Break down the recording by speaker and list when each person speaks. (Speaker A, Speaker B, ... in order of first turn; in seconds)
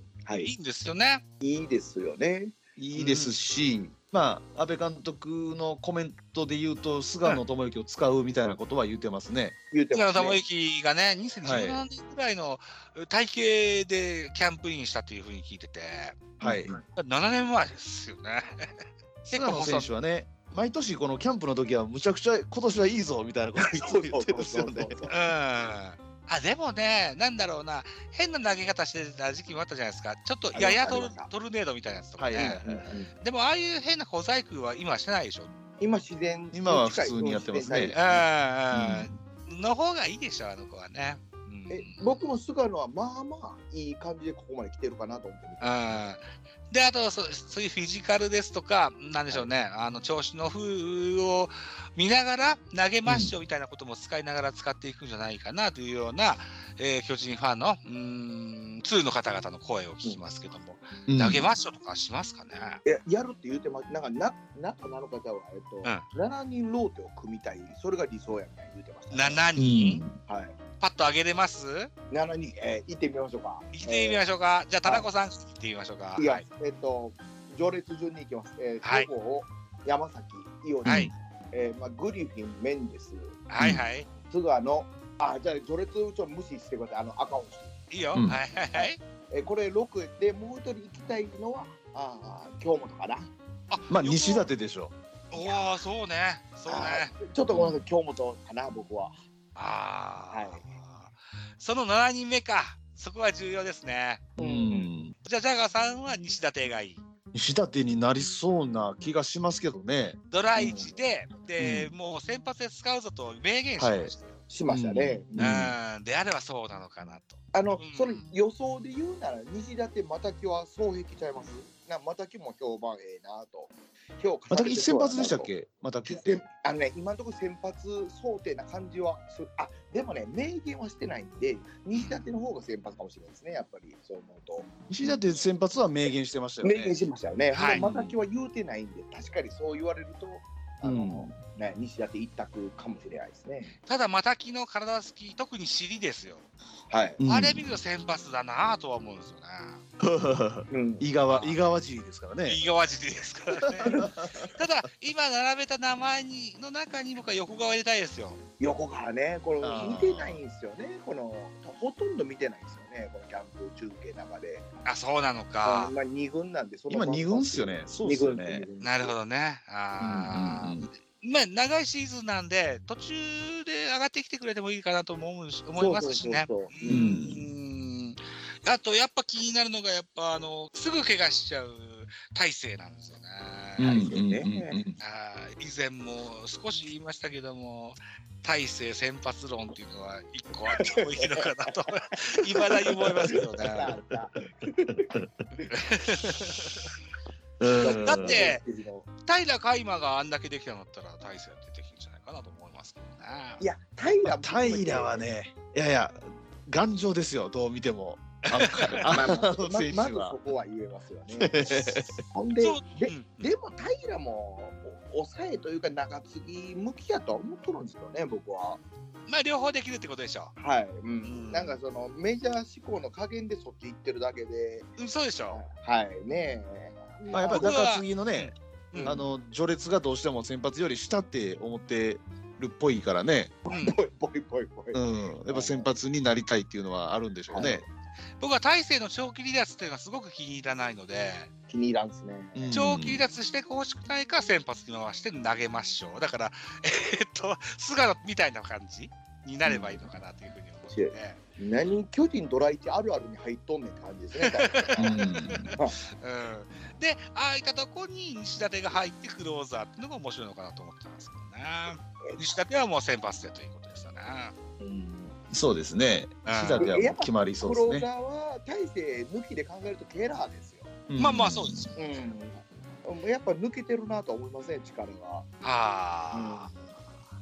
Speaker A: 0.2-0.5, 1.4-2.6, 9.7-10.4, 16.4-16.8, 23.7-25.2, 30.5-31.3, 32.4-33.1, 35.8-38.3, 41.7-46.1, 62.8-69.5, 70.2-70.6, 72.1-74.2, 74.8-75.1, 76.2-83.4, 84.3-87.7, 88.7-93.3, 95.3-95.7, 96.7-99.2, 100.3-100.6, 104.4-104.9, 110.6-111.0, 114.5-115.6, 117.5-125.5, 126.1-135.2, 136.6-143.8, 146.9-147.2, 150.7-151.1, 158.6-164.7, 165.6-169.2, 175.8-177.2, 183.8-184.8, 190.8-191.5, 193.2-195.7, 197.8-199.1, 203.6-205.3, 209.0-218.8, 220.6-224.9, 225.5-227.7, 228.9-229.3, 233.7-235.9, 237.5-237.9, 241.7-242.8, 249.7-250.0, 250.9-255.9, 264.8-265.3, 266.8-270.9, 271.9-275.5, 276.3-276.7
Speaker B: 0.4-1.2, 2.9-3.4, 9.9-16.3, 16.9-19.9, 25.1-35.5, 37.9-42.2, 45.6-62.8, 69.1-70.0, 70.8-71.9, 73.7-76.5, 78.8-79.1, 80.8-81.1, 83.5-84.1, 87.9-89.0, 93.7-94.5, 95.3-97.1, 99.6-104.2, 105.2-107.0, 110.3-114.4, 115.4-118.3, 131.9-132.2, 137.5-138.2, 143.8-146.5, 147.2-149.8, 151.3-151.6, 152.4-154.0, 154.5-158.4, 164.8-165.9, 168.8-184.1, 185.0-193.9, 195.7-196.9, 197.8-198.6, 199.2-203.6, 208.5-209.2, 212.6-213.6, 219.3-220.6, 221.2-221.8, 225.0-225.6, 227.2-229.2, 233.7-234.0, 238.4-241.5, 242.7-251.4, 254.4-264.5, 266.4-266.9, 271.2-272.2, 275.6-276.7
Speaker C: 2.8-9.6, 11.4-11.8, 16.4-16.7, 19.2-25.0, 32.2-32.9, 36.5-38.0, 38.7-39.1, 53.1-53.3, 61.1-61.5, 69.6-70.2, 80.8-81.1, 83.6-83.8, 93.9-94.9, 97.5-97.8, 104.4-105.2, 107.3-110.2, 111.6-111.9, 113.8-114.1, 114.7-115.8, 124.5-126.4, 134.9-137.0, 140.8-141.3, 147.2-147.7, 150.0-152.6, 153.8-154.6, 159.6-160.4, 166.9-168.7, 170.0-170.9, 176.9-177.5, 183.8-185.0, 192.7-193.3, 195.1-195.5, 196.3-196.9, 197.6-198.5, 204.2-210.4, 211.3-212.2, 227.3-228.5, 229.0-233.6, 234.9-237.8, 242.5-243.2, 255.0-255.7, 265.5-268.1, 271.1-271.9